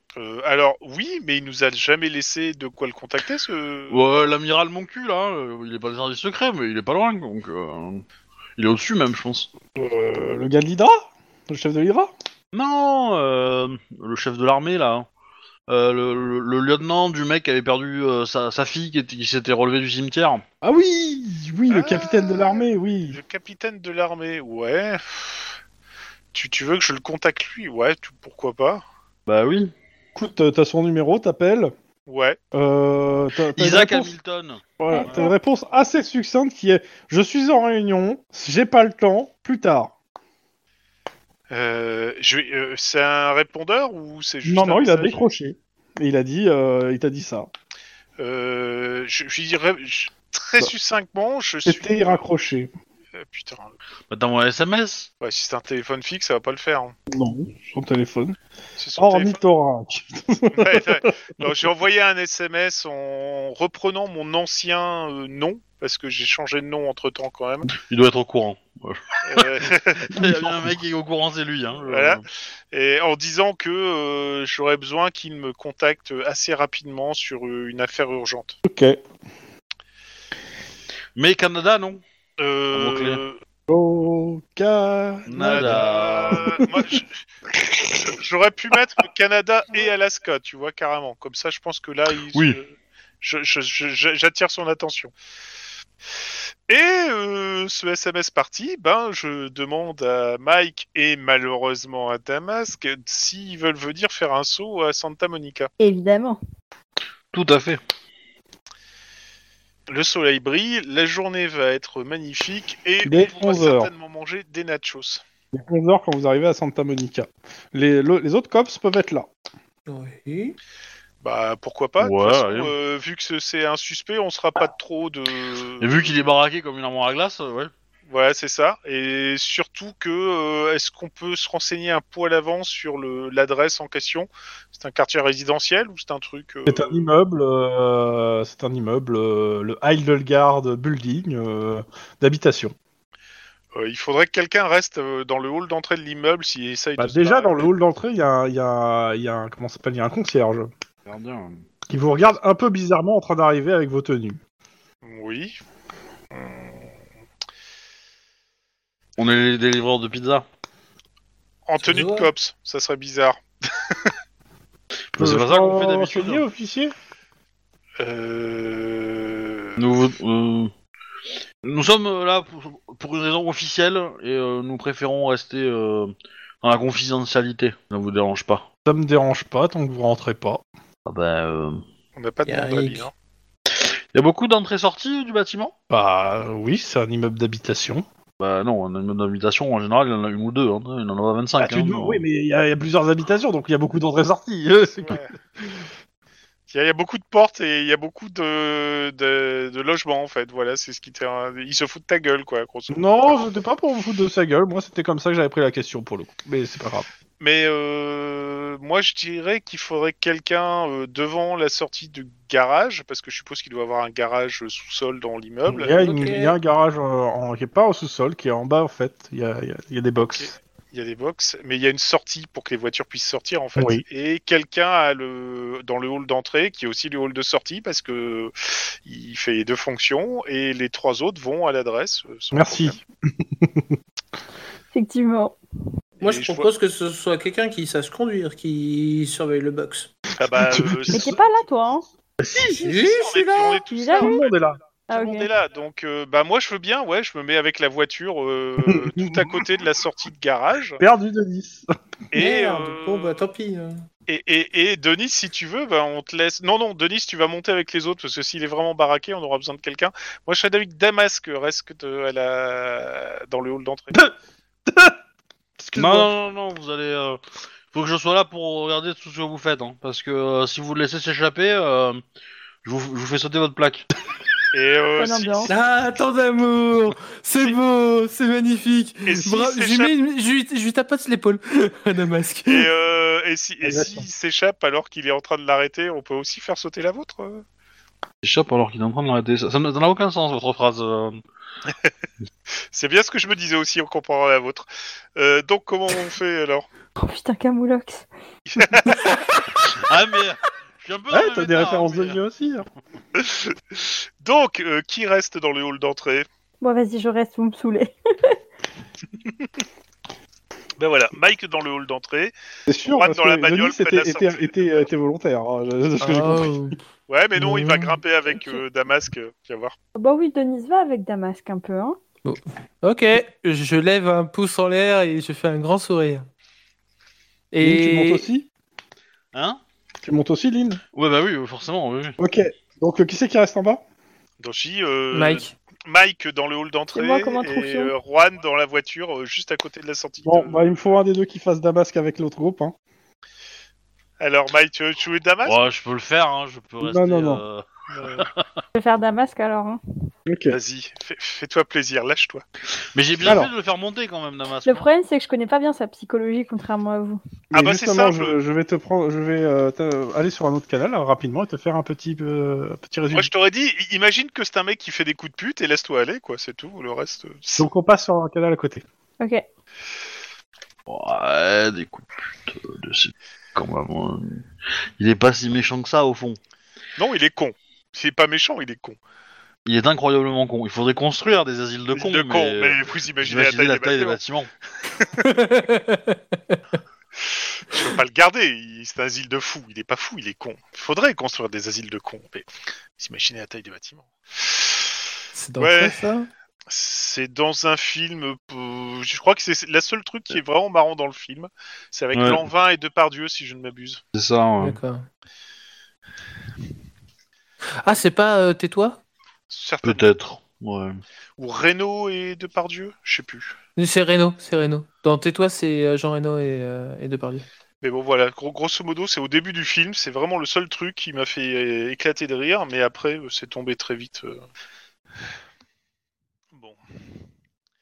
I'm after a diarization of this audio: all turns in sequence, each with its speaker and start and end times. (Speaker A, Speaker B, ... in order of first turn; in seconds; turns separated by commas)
Speaker A: 0.1-4.1, Speaker B: 3.9-8.0, Speaker B: 8.6-9.5, Speaker C: 9.7-12.1, Speaker B: 12.5-15.1, Speaker B: 15.7-20.4, Speaker C: 20.6-23.2, Speaker A: 21.7-25.5, Speaker A: 26.3-28.8, Speaker B: 29.2-29.7, Speaker C: 30.1-31.7, Speaker A: 32.1-32.4, Speaker C: 32.5-34.1, Speaker B: 33.5-35.2, Speaker C: 34.8-39.9, Speaker D: 34.9-35.2, Speaker A: 41.5-45.2, Speaker C: 44.4-47.5, Speaker A: 48.2-52.2, Speaker C: 51.6-52.7, Speaker A: 53.1-53.7, Speaker B: 54.1-55.1, Speaker A: 55.2-56.9, Speaker C: 57.1-58.4, Speaker A: 58.8-59.4, Speaker C: 59.0-61.1, Speaker A: 60.5-67.7, Speaker B: 67.8-69.4, Speaker A: 69.2-70.2, Speaker B: 70.0-72.2, Speaker C: 70.1-70.8, Speaker A: 71.8-78.6, Speaker C: 78.6-79.0, Speaker B: 81.2-82.0, Speaker A: 82.4-83.4, Speaker B: 82.7-83.2, Speaker C: 83.7-87.0, Speaker B: 85.3-86.6, Speaker A: 85.4-87.1, Speaker C: 87.6-88.1, Speaker A: 88.1-95.1, Speaker A: 96.7-105.7, Speaker D: 105.8-106.4, Speaker B: 107.3-107.8, Speaker A: 109.9-115.2, Speaker C: 113.0-113.9, Speaker C: 115.5-119.3, Speaker E: 119.9-120.6, Speaker A: 121.2-126.0, Speaker B: 122.0-122.7, Speaker B: 125.8-127.7, Speaker A: 128.1-137.1, Speaker C: 136.7-142.7, Speaker A: 143.7-147.7, Speaker C: 147.0-150.7, Speaker B: 151.1-151.7, Speaker C: 151.9-154.4, Speaker A: 155.0-155.6, Speaker A: 156.3-156.8, Speaker B: 159.2-160.4, Speaker A: 161.7-164.1, Speaker E: 161.8-162.3, Speaker B: 165.1-166.4, Speaker C: 165.2-166.9, Speaker A: 168.0-169.8, Speaker B: 169.8-170.7, Speaker B: 171.6-178.6, Speaker C: 178.8-180.6, Speaker B: 181.0-181.8, Speaker A: 182.2-183.1, Speaker E: 182.4-183.1, Speaker B: 183.7-185.7, Speaker C: 185.9-188.0, Speaker B: 188.4-192.2, Speaker C: 191.6-195.2, Speaker A: 195.0-195.3, Speaker A: 196.7-203.1, Speaker C: 202.9-207.1, Speaker A: 207.4-216.0, Speaker C: 215.7-220.5, Speaker E: 215.8-216.6, Speaker A: 220.3-233.0, Speaker C: 223.8-224.0, Speaker C: 232.5-233.9, Speaker D: 234.9-235.6, Speaker E: 236.2-240.1, Speaker A: 236.2-236.7, Speaker A: 240.4-241.4, Speaker C: 240.7-241.4, Speaker D: 241.1-242.1, Speaker C: 242.4-242.9, Speaker E: 242.8-243.8, Speaker A: 242.9-251.0, Speaker D: 243.9-244.4, Speaker C: 244.2-244.8, Speaker D: 245.1-245.5, Speaker C: 248.8-249.6, Speaker C: 251.0-251.9, Speaker A: 252.3-253.4, Speaker E: 252.3-254.1, Speaker A: 254.3-264.2, Speaker C: 264.9-265.1, Speaker C: 265.8-266.3, Speaker B: 265.9-267.4, Speaker B: 267.9-272.2, Speaker B: 272.8-274.1, Speaker A: 274.7-275.7, Speaker D: 275.2-275.7, Speaker E: 275.6-282.9, Speaker A: 279.2-280.1, Speaker A: 282.7-287.6, Speaker C: 283.8-284.2, Speaker B: 288.4-291.4, Speaker A: 292.9-296.9, Speaker D: 297.1-298.3, Speaker A: 298.7-299.3, Speaker B: 299.9-302.4, Speaker C: 301.3-302.9, Speaker A: 303.3-306.4, Speaker D: 306.8-308.6, Speaker A: 311.0-312.5, Speaker C: 312.9-316.7, Speaker A: 313.0-315.1, Speaker E: 316.2-317.0, Speaker A: 317.3-319.9, Speaker E: 317.6-318.2, Speaker D: 320.1-322.2, Speaker E: 322.4-326.5, Speaker E: 327.7-328.5, Speaker C: 327.8-328.7, Speaker B: 329.5-329.8, Speaker C: 330.2-331.0, Speaker B: 331.1-332.4, Speaker C: 332.4-334.0, Speaker A: 334.6-340.8, Speaker E: 335.3-335.7, Speaker D: 337.1-338.1, Speaker C: 340.4-342.9, Speaker A: 344.4-345.8, Speaker B: 345.6-348.7, Speaker C: 347.0-347.6, Speaker A: 348.1-348.5, Speaker D: 348.9-350.0, Speaker C: 350.5-350.8, Speaker A: 350.7-352.6, Speaker B: 353.1-355.0, Speaker C: 353.4-353.7, Speaker D: 354.8-357.4, Speaker C: 357.7-363.5, Speaker A: 357.7-358.5, Speaker A: 363.3-367.9, Speaker C: 367.8-369.0, Speaker B: 371.1-376.6, Speaker A: 377.2-379.2, Speaker B: 379.9-384.7, Speaker A: 382.1-384.4, Speaker A: 385.2-385.4, Speaker E: 385.4-386.8, Speaker A: 387.9-395.0, Speaker E: 395.5-396.5, Speaker A: 395.8-396.2, Speaker A: 396.9-404.2, Speaker B: 402.3-402.6, Speaker B: 404.3-405.0, Speaker E: 404.8-405.3, Speaker E: 408.0-409.2, Speaker A: 409.7-410.3, Speaker B: 410.0-411.2, Speaker A: 411.6-413.7, Speaker E: 414.0-417.6, Speaker A: 418.0-424.6, Speaker A: 426.7-427.0